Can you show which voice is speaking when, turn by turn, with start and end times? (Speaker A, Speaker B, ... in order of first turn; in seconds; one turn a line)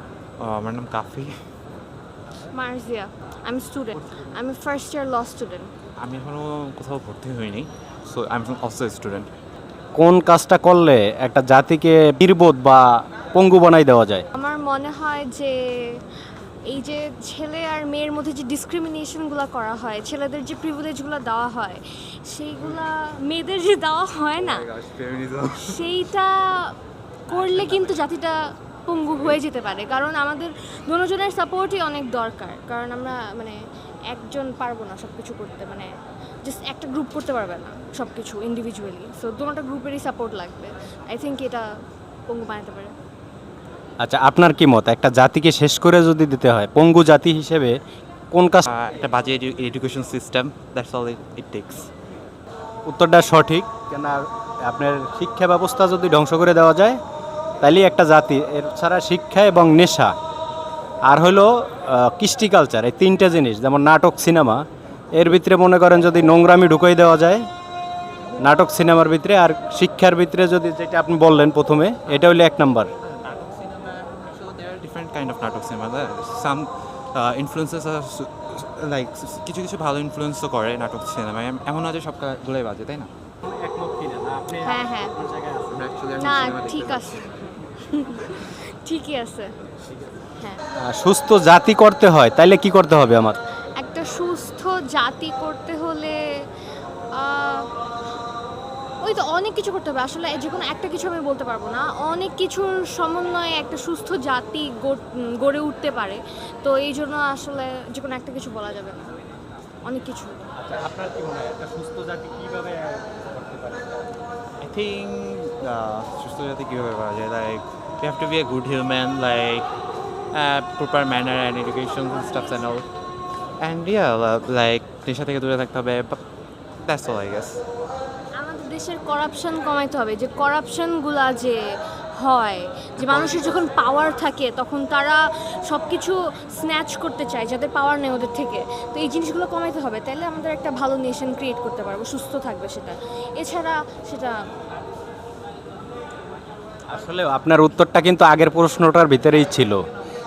Speaker A: 0.4-1.3
Speaker B: 2.5-5.7
Speaker A: 6.0-9.3
Speaker C: 9.9-14.3
Speaker B: 14.3-16.0
Speaker B: 16.7-24.7
Speaker A: 24.4-26.0
Speaker B: 25.5-26.8
Speaker A: 27.3-28.4
Speaker B: 27.3-35.9
Speaker B: 36.4-41.7
Speaker B: 42.3-42.9
Speaker C: 44.0-47.8
Speaker C: 48.3-48.7
Speaker A: 48.7-51.9
Speaker C: 52.9-57.0
Speaker C: 57.6-60.1
Speaker C: 61.1-67.5
Speaker C: 68.4-72.9
Speaker A: 73.0-83.1
Speaker C: 83.4-86.3
Speaker B: 84.6-85.2
Speaker A: 85.7-87.4
Speaker B: 86.2-89.5
Speaker C: 89.9-90.2
Speaker C: 90.8-93.4
Speaker B: 93.8-96.2
Speaker B: 97.1-97.7
Speaker B: 99.0-109.2
Speaker B: 109.8-110.4
Speaker C: 110.6-114.1
Speaker A: 114.6-119.7
Speaker A: 120.3-122.9
Speaker A: 123.6-126.2
Speaker A: 126.8-127.6
Speaker B: 128.3-131.6
Speaker B: 132.1-144.3
Speaker A: 133.0-133.6
Speaker C: 146.9-149.9